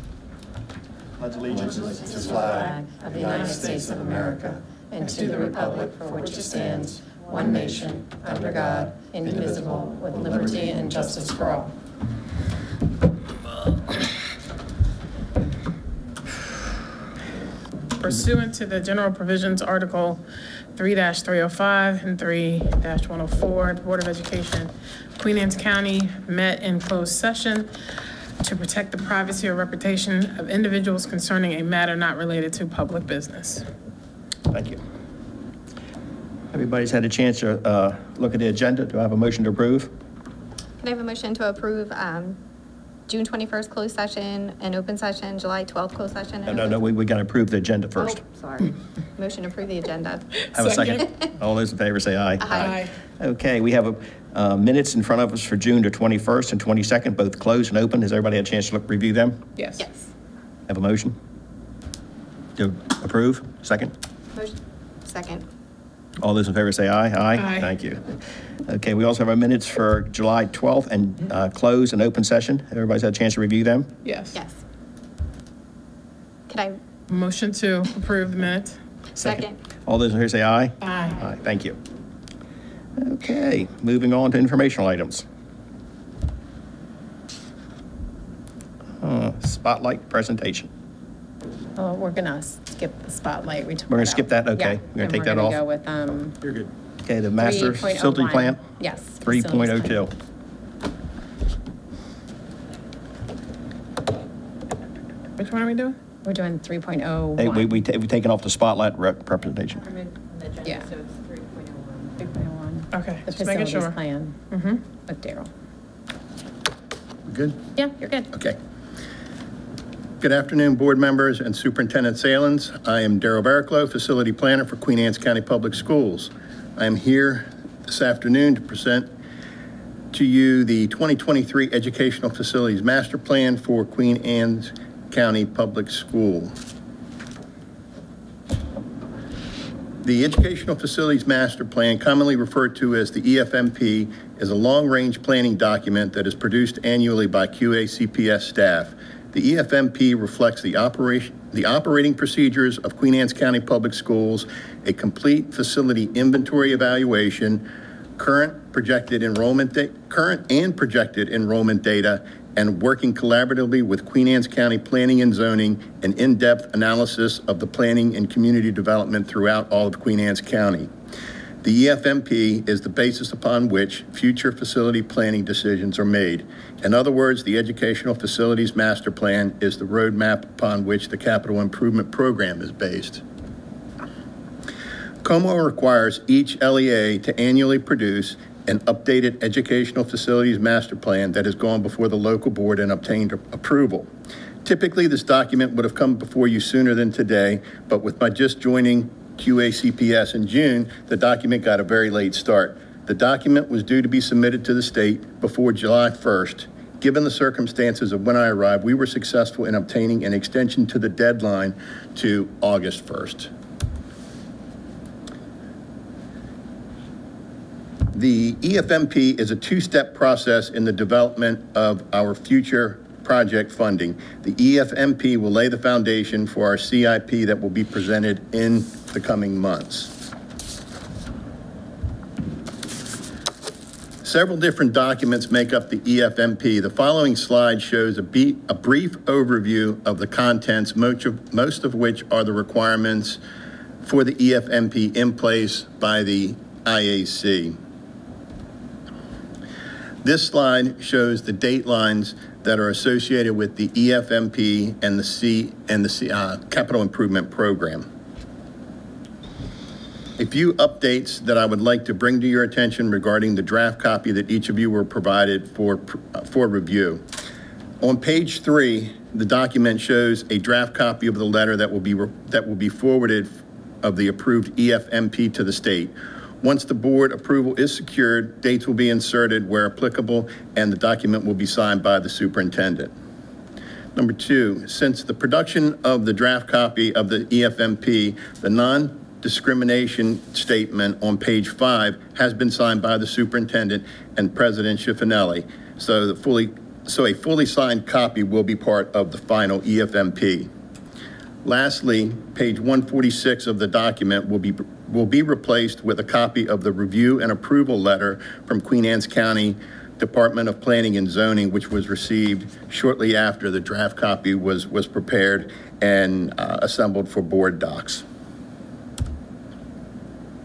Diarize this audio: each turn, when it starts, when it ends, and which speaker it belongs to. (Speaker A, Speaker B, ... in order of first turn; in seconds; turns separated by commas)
Speaker A: 1.2-2.4, Speaker B: 2.3-11.7, Speaker C: 5.2-5.5, Speaker C: 18.0-20.2, Speaker C: 20.8-27.7, Speaker C: 28.4-33.7, Speaker A: 34.5-34.8, Speaker A: 36.5-39.9, Speaker D: 40.8-42.4, Speaker D: 43.1-46.8, Speaker A: 46.4-48.2, Speaker D: 48.0-51.3, Speaker C: 50.5-51.0, Speaker A: 50.5-59.4, Speaker D: 52.4-52.8, Speaker C: 52.6-52.9, Speaker C: 59.6-59.8, Speaker D: 59.8-60.1, Speaker A: 60.7-61.1, Speaker A: 62.5-63.9, Speaker D: 64.3-65.4, Speaker A: 66.2-73.9, Speaker C: 67.3-67.7, Speaker C: 74.0-74.4, Speaker D: 76.5-76.8, Speaker C: 77.1-78.8, Speaker D: 79.2-79.6, Speaker A: 79.3-81.8, Speaker C: 80.8-81.2, Speaker A: 83.0-85.2, Speaker A: 89.0-90.7, Speaker B: 91.8-96.4, Speaker A: 93.9-95.6, Speaker A: 97.0-98.6, Speaker B: 97.4-100.0, Speaker A: 99.2-100.1, Speaker C: 105.4-106.0, Speaker B: 106.2-107.8, Speaker A: 107.4-109.9, Speaker B: 110.6-110.9, Speaker C: 112.2-114.0, Speaker B: 113.2-114.5, Speaker C: 114.5-114.8, Speaker B: 115.0-115.5, Speaker E: 117.3-117.6, Speaker B: 117.8-118.3, Speaker E: 120.2-129.1, Speaker E: 130.1-136.5, Speaker E: 140.0-170.9, Speaker E: 171.6-183.2, Speaker E: 185.2-194.1, Speaker E: 194.6-213.5, Speaker E: 218.1-230.1, Speaker E: 234.2-243.4, Speaker E: 244.0-247.8, Speaker E: 250.2-258.1, Speaker E: 260.4-267.2, Speaker E: 268.0-283.1, Speaker E: 284.1-300.7, Speaker E: 301.6-318.2